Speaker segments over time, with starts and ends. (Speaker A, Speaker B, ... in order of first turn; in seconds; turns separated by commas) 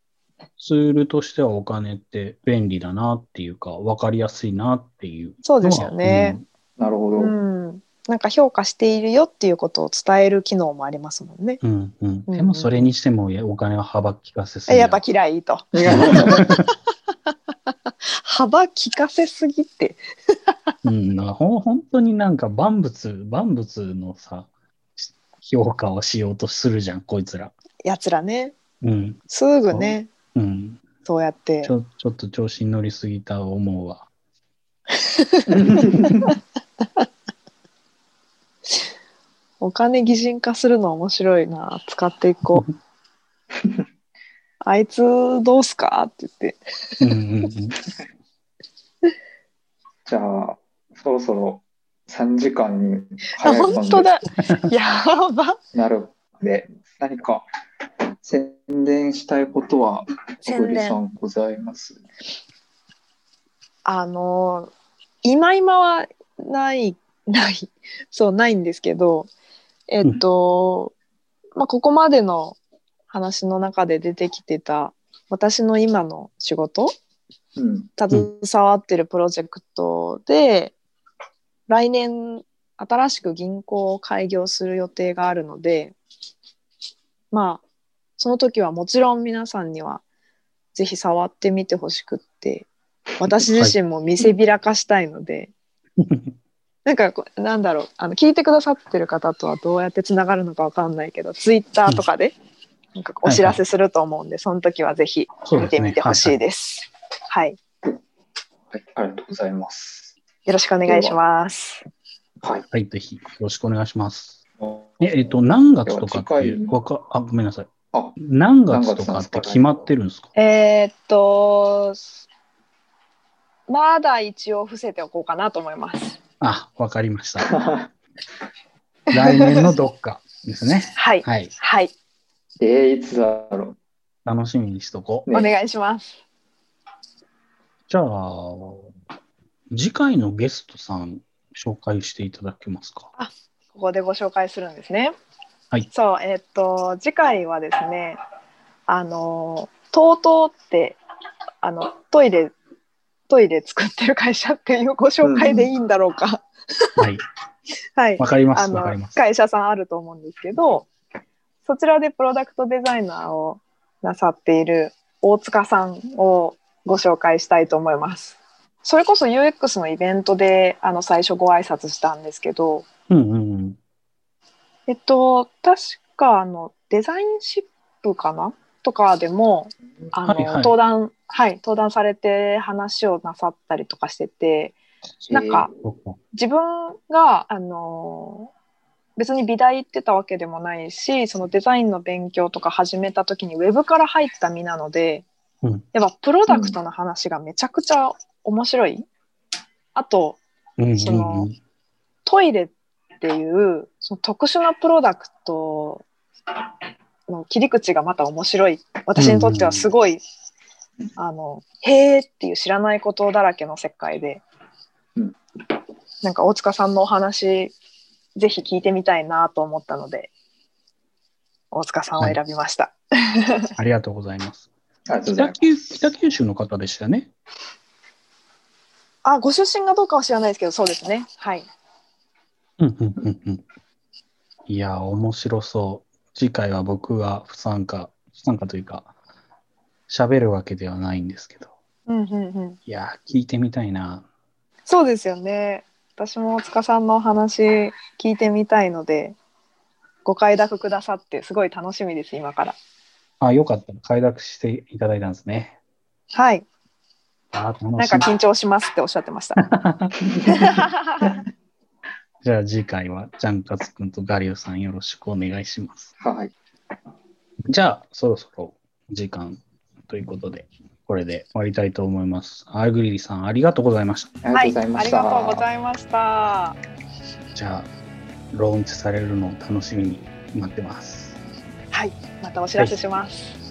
Speaker A: 0.6-6.4, Speaker B: 5.4-6.4, Speaker C: 6.8-7.3, Speaker B: 7.2-11.6, Speaker A: 11.6-15.0, Speaker B: 12.3-12.9, Speaker B: 14.7-16.7, Speaker C: 15.7-16.4, Speaker A: 15.8-16.6, Speaker B: 18.1-20.7, Speaker A: 20.8-27.5, Speaker B: 27.8-28.5, Speaker A: 28.8-29.2, Speaker B: 29.3-30.1, Speaker A: 29.7-30.8, Speaker B: 31.0-31.7, Speaker A: 31.6-34.1, Speaker B: 35.2-35.4, Speaker C: 35.5-36.3, Speaker B: 39.6-42.7, Speaker B: 44.6-47.0, Speaker A: 47.0-47.8, Speaker C: 50.0-54.1, Speaker B: 53.4-55.6, Speaker C: 55.7-57.4, Speaker C: 58.2-62.0, Speaker B: 60.5-61.0, Speaker B: 63.8-64.7, Speaker B: 65.2-69.3, Speaker B: 69.9-70.9, Speaker B: 71.5-72.6, Speaker B: 73.1-76.9, Speaker C: 77.5-77.9, Speaker B: 78.0-80.7, Speaker B: 81.7-85.9, Speaker B: 87.3-87.6, Speaker B: 88.2-90.0, Speaker B: 90.7-95.5, Speaker A: 93.3-93.7, Speaker A: 96.0-96.3, Speaker B: 96.8-102.3, Speaker B: 102.9-107.6, Speaker A: 103.2-103.6, Speaker A: 105.5-106.4, Speaker C: 108.7-110.1, Speaker B: 110.5-111.8, Speaker C: 110.9-111.2, Speaker A: 112.7-114.4, Speaker C: 114.6-115.1, Speaker A: 115.0-120.3, Speaker C: 115.8-116.7, Speaker C: 118.7-119.8, Speaker B: 120.3-122.0, Speaker B: 123.7-126.2, Speaker A: 126.4-127.5, Speaker C: 127.4-127.9, Speaker A: 129.1-131.5, Speaker B: 129.1-129.7, Speaker B: 130.9-131.9, Speaker C: 132.6-133.8, Speaker A: 134.2-135.3, Speaker B: 135.3-136.2, Speaker A: 137.9-138.9, Speaker A: 139.7-143.1, Speaker B: 143.2-145.1, Speaker B: 145.9-148.2, Speaker B: 148.9-151.0, Speaker B: 151.6-152.5, Speaker B: 153.3-156.9, Speaker C: 155.2-155.7, Speaker A: 157.0-157.2, Speaker B: 158.0-160.9, Speaker A: 158.2-159.2, Speaker B: 161.6-172.8, Speaker A: 173.1-173.8, Speaker B: 174.9-184.8, Speaker A: 180.2-180.7, Speaker C: 185.2-185.7, Speaker B: 185.3-185.7, Speaker A: 185.8-186.2, Speaker B: 186.3-188.5, Speaker B: 189.2-195.2, Speaker B: 195.9-199.1, Speaker C: 196.5-196.7, Speaker B: 199.9-200.4, Speaker A: 200.8-201.6, Speaker B: 201.0-201.5, Speaker B: 202.2-206.0, Speaker B: 207.3-210.2, Speaker A: 209.2-209.9, Speaker B: 211.2-214.4, Speaker B: 216.2-217.7, Speaker B: 218.3-220.3, Speaker B: 221.7-223.7, Speaker A: 223.8-224.7, Speaker C: 225.1-225.6, Speaker A: 225.3-227.3, Speaker B: 229.2-231.7, Speaker A: 232.8-233.6, Speaker A: 234.7-239.1, Speaker A: 240.1-241.7, Speaker B: 242.1-242.8, Speaker A: 242.9-244.2, Speaker B: 244.9-249.3, Speaker B: 250.2-252.8, Speaker A: 253.4-255.7, Speaker B: 256.3-256.6, Speaker A: 257.5-258.3, Speaker B: 258.0-259.7, Speaker A: 259.6-260.1, Speaker B: 260.4-261.4, Speaker A: 262.4-266.1, Speaker C: 266.2-266.5, Speaker A: 267.7-274.3, Speaker C: 274.4-275.6, Speaker B: 274.5-276.8, Speaker A: 277.5-277.9, Speaker A: 278.5-281.4, Speaker B: 281.9-283.6